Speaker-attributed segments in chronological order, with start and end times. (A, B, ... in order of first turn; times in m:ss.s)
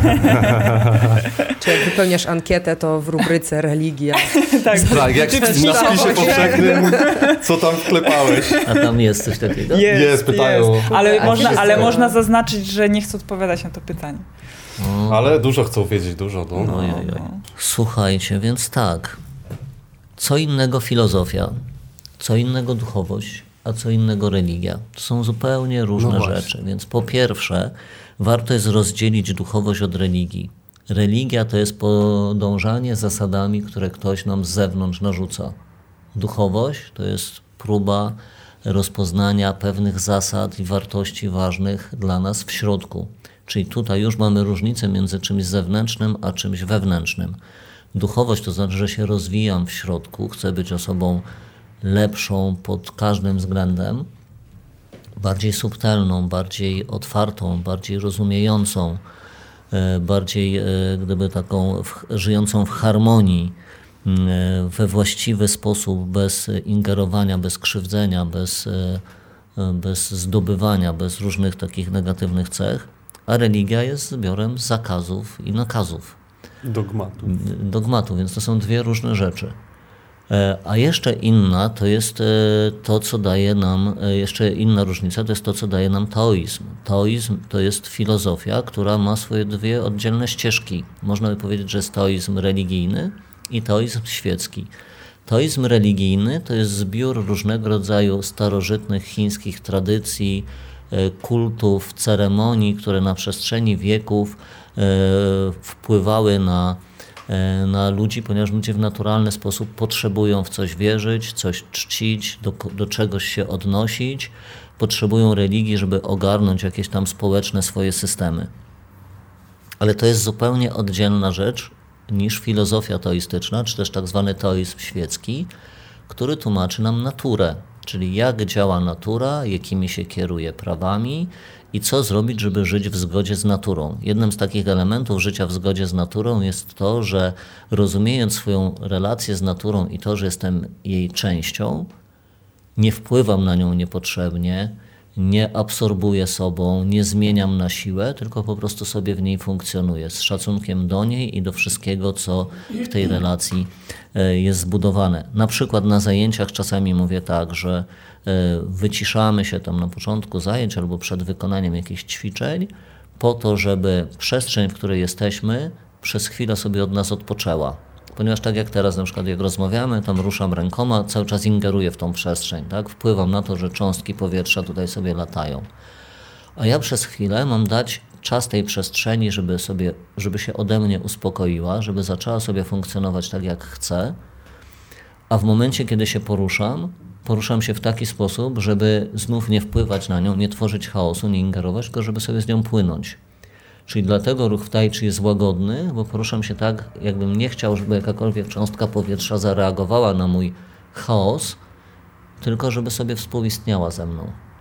0:00.2-0:01.2 A
0:01.6-0:07.3 B
0:04.3-0:07.3 C
0:04.8-0:08.6 A
0:07.9-0:08.9 C
0:08.6-0:09.9 D
0:09.6-0:14.2 C
0:09.9-0:11.9 A
0:10.9-0:12.2 B
0:14.8-0:15.3 D
0:15.1-0:17.0 A
0:16.5-0:19.2 D
0:16.8-0:17.4 C
0:20.2-0:21.5 D
0:22.2-0:35.6 D
0:26.0-0:26.5 A
0:36.1-0:47.4 D
0:47.9-0:51.2 D
0:51.8-0:54.1 D
0:55.2-0:59.0 D
0:59.7-1:09.0 D
1:09.6-1:16.2 D
1:16.6-1:17.4 A
1:17.2-1:19.6 D
1:20.3-1:34.7 D
1:35.2-1:58.5 D
1:59.8-2:05.5 D
2:06.1-2:21.9 D
2:22.8-2:55.7 D
2:56.6-3:04.2 D
3:05.3-3:13.2 D
3:13.9-3:21.6 D
3:22.4-3:24.4 D